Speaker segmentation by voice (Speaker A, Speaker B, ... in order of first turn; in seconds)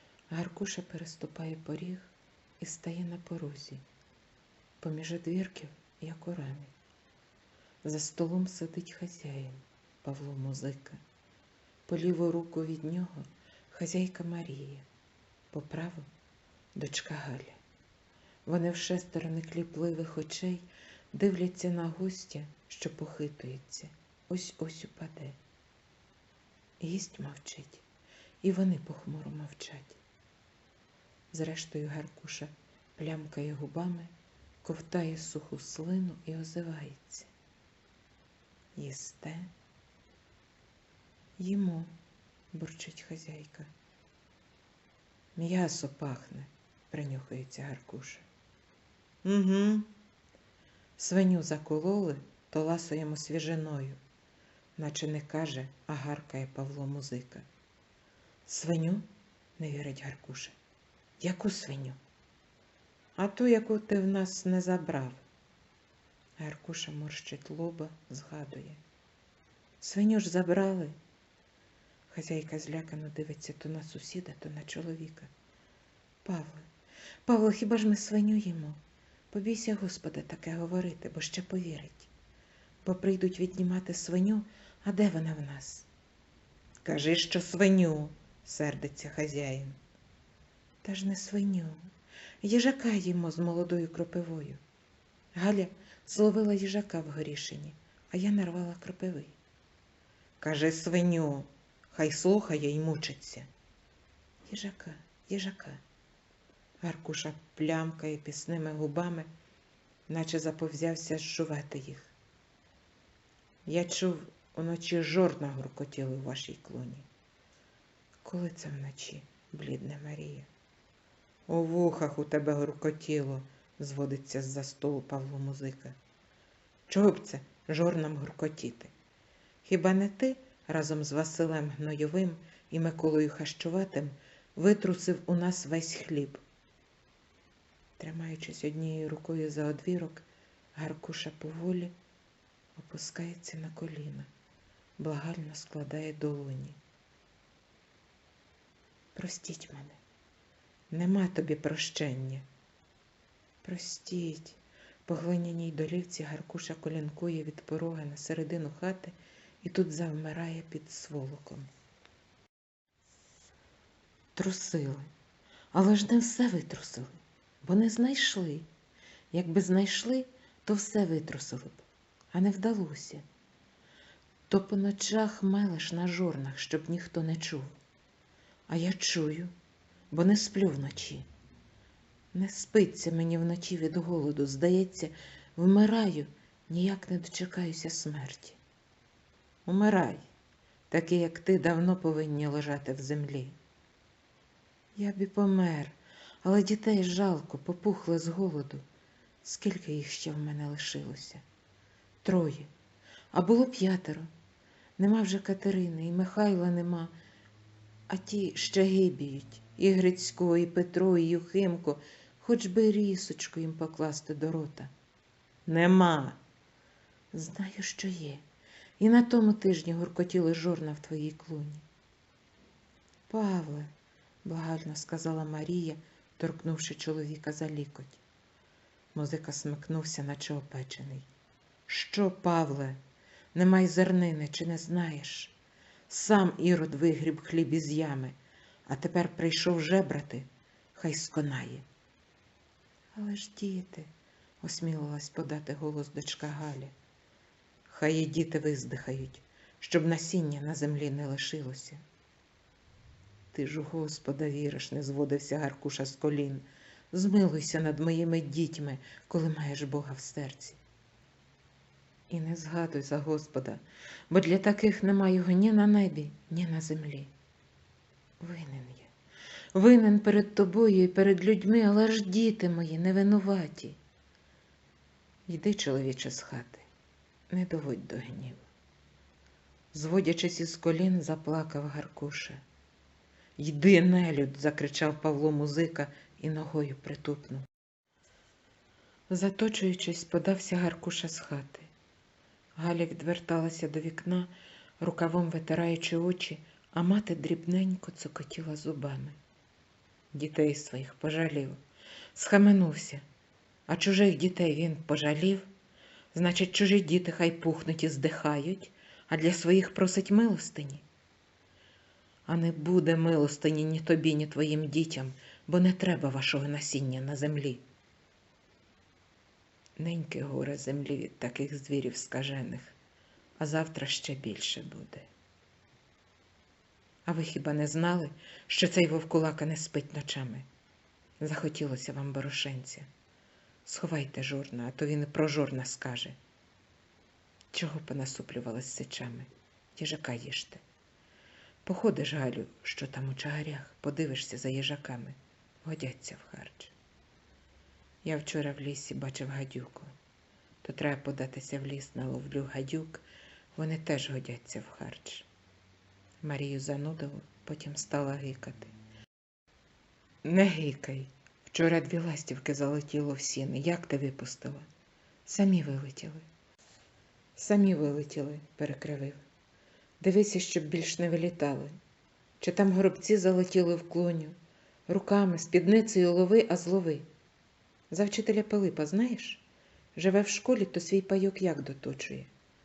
Speaker A: 0.3-3.8, 4.8-6.7, 7.8-11.0, 11.9-14.8, 15.5-16.1, 16.7-17.6, 18.4-25.4, 26.8-27.8, 28.4-30.0, 31.3-37.3, 38.8-39.5, 41.4-41.9, 42.5-43.7, 45.4-48.3, 49.2-49.9, 51.0-54.0, 54.8-57.5, 58.5-60.5, 61.2-62.0, 63.2-65.2, 66.4-68.8, 69.8-71.0, 72.1-75.3, 76.2-76.7, 77.2-82.1, 82.8-85.9, 86.8-89.8, 90.8-91.9, 92.4-94.6, 95.3-99.4, 100.4-103.5, 104.5-105.8, 106.8-109.3, 110.1-112.1, 113.7-117.1, 118.2-120.5, 121.5-126.0, 126.9-128.9, 129.6-136.4, 138.0-141.9, 142.8-144.3, 145.0-146.8, 149.1-150.0, 150.9-152.4, 153.6-161.7, 164.3-165.1, 165.7-168.7, 169.3-173.2, 174.5-177.8, 178.7-179.5, 180.1-181.3, 182.3-188.6, 189.7-190.2, 190.9-193.6, 194.9-198.8, 199.4-201.4, 202.2-202.7, 203.3-204.3, 205.0-207.1, 208.1-214.9, 215.7-216.4, 217.3-218.4, 219.0-221.8, 223.3-223.9, 224.4-228.2, 229.1-231.3, 231.9-233.0, 233.5-235.6, 236.1-241.8, 243.1-244.1, 244.6-246.9, 247.9-252.0, 253.5-260.8, 262.3-267.3, 268.4-269.1, 269.7-274.0, 275.5-276.9, 277.5-278.6, 279.9-282.6, 283.6-287.6, 289.3-291.9, 292.8-299.4, 300.3-301.8, 302.3-303.2, 303.9-305.7, 306.3-311.0, 312.5-317.8, 320.0-322.9, 323.6-325.3, 327.2-330.7, 331.4-333.1, 333.9-336.4, 337.7-340.8, 341.8-346.9, 348.2-350.1, 350.8-355.5, 356.4-358.9, 360.4-364.9, 365.4-366.4, 367.6-369.4, 370.2-371.9, 372.6-374.6, 375.1-377.3, 378.1-382.5